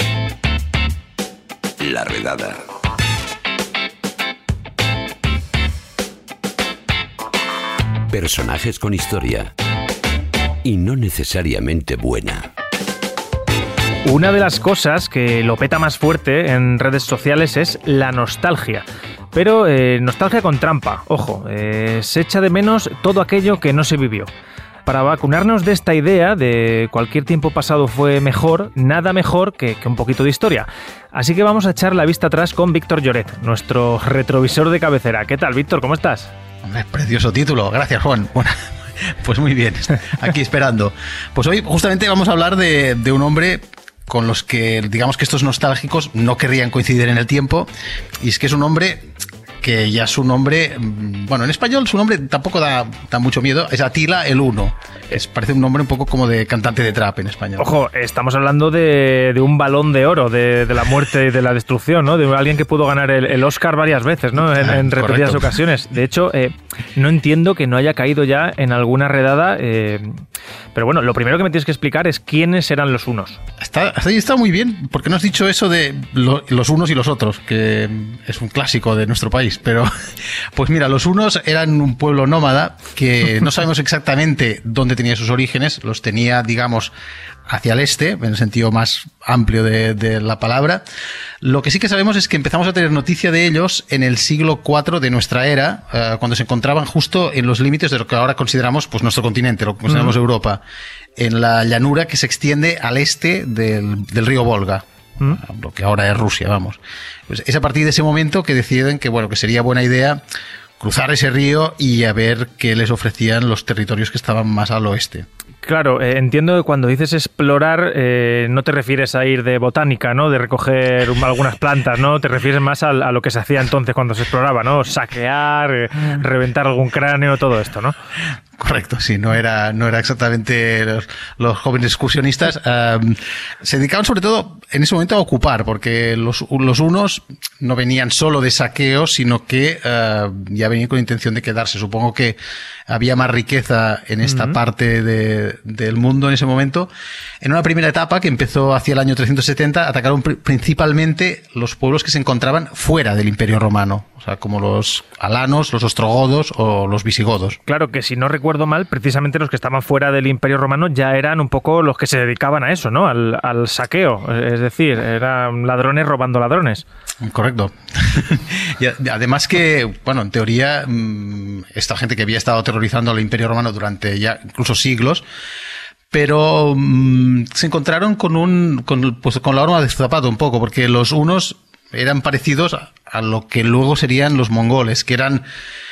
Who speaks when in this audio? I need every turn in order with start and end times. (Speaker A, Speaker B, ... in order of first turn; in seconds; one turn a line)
Speaker A: 1.8-2.6
Speaker A: 8.1-9.5
Speaker A: 10.6-12.5
Speaker B: 14.1-24.3
Speaker B: 24.9-36.3
Speaker C: 36.6-47.7
Speaker C: 48.2-49.0
Speaker C: 49.6-57.7
Speaker B: 57.6-70.2
Speaker C: 64.5-65.5
Speaker B: 70.7-73.4
Speaker C: 73.6-79.9
Speaker C: 80.5-86.9
Speaker C: 87.5-90.8
Speaker C: 91.4-100.6
Speaker B: 99.9-100.1
Speaker C: 101.2-110.2
Speaker C: 110.8-115.3
Speaker B: 115.6-127.9
Speaker C: 128.6-142.4
Speaker C: 142.9-146.9
Speaker B: 144.2-144.6
Speaker C: 147.4-157.6
Speaker B: 157.7-166.8
Speaker C: 167.2-175.2
Speaker C: 176.1-185.4